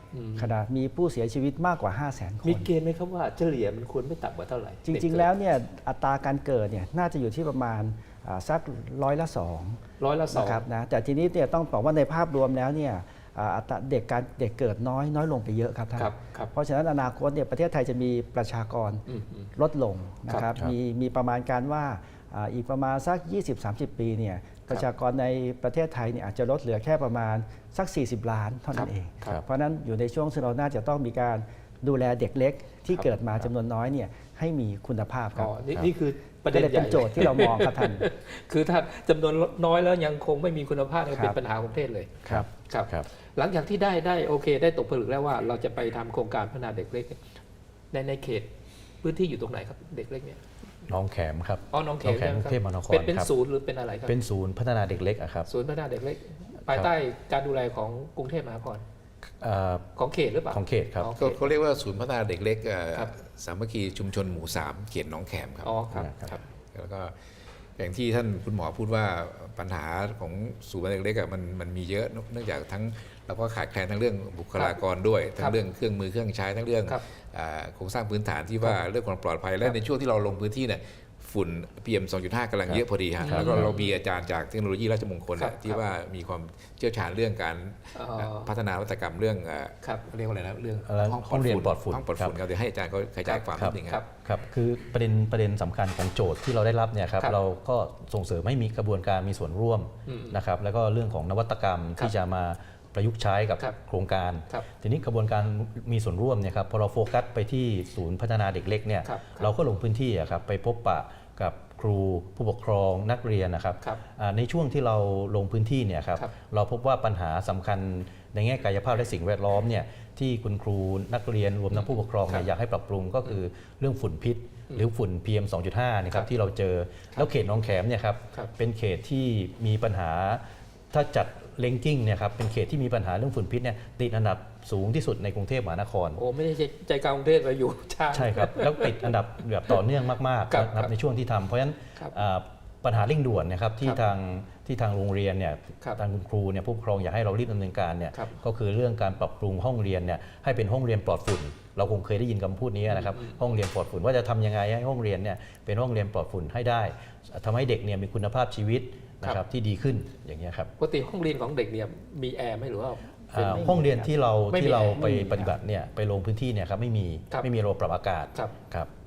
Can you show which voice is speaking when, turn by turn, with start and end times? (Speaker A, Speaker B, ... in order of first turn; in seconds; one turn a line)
Speaker A: 0.1-0.5
Speaker B: 0.4-2.7
Speaker A: 2.4-5.3
Speaker B: 4.8-35.5
Speaker A: 10.0-10.6
Speaker A: 16.0-16.5
Speaker A: 19.1-19.5
Speaker A: 28.7-29.4
Speaker A: 35.4-47.2
Speaker B: 36.5-38.1
Speaker B: 41.1-41.4
Speaker C: 42.2-43.1
Speaker A: 47.9-48.5
Speaker A: 49.0-50.4
Speaker C: 50.9-53.3
Speaker A: 51.7-54.1
Speaker C: 54.1-55.5
Speaker A: 55.5-58.9
Speaker C: 59.4-59.9
Speaker A: 60.0-61.4
Speaker C: 60.5-61.1
Speaker D: 61.2-65.8
Speaker A: 65.6-66.4
Speaker C: 65.9-66.2
Speaker D: 66.7-94.0
Speaker C: 82.7-83.7
Speaker A: 83.2-83.9
Speaker A: 85.4-85.8
Speaker A: 88.0-88.5
Speaker C: 90.8-92.4
Speaker A: 93.2-94.1
Speaker C: 93.6-136.2
Speaker A: 100.1-100.4
Speaker A: 109.0-109.5
Speaker A: 121.7-122.5
Speaker A: 136.2-139.1
Speaker C: 138.1-160.7
Speaker A: 140.5-140.9
Speaker A: 152.9-153.4
Speaker A: 160.8-163.8
Speaker C: 163.3-168.9
Speaker B: 163.4-164.1
Speaker A: 164.5-165.1
Speaker B: 164.9-165.5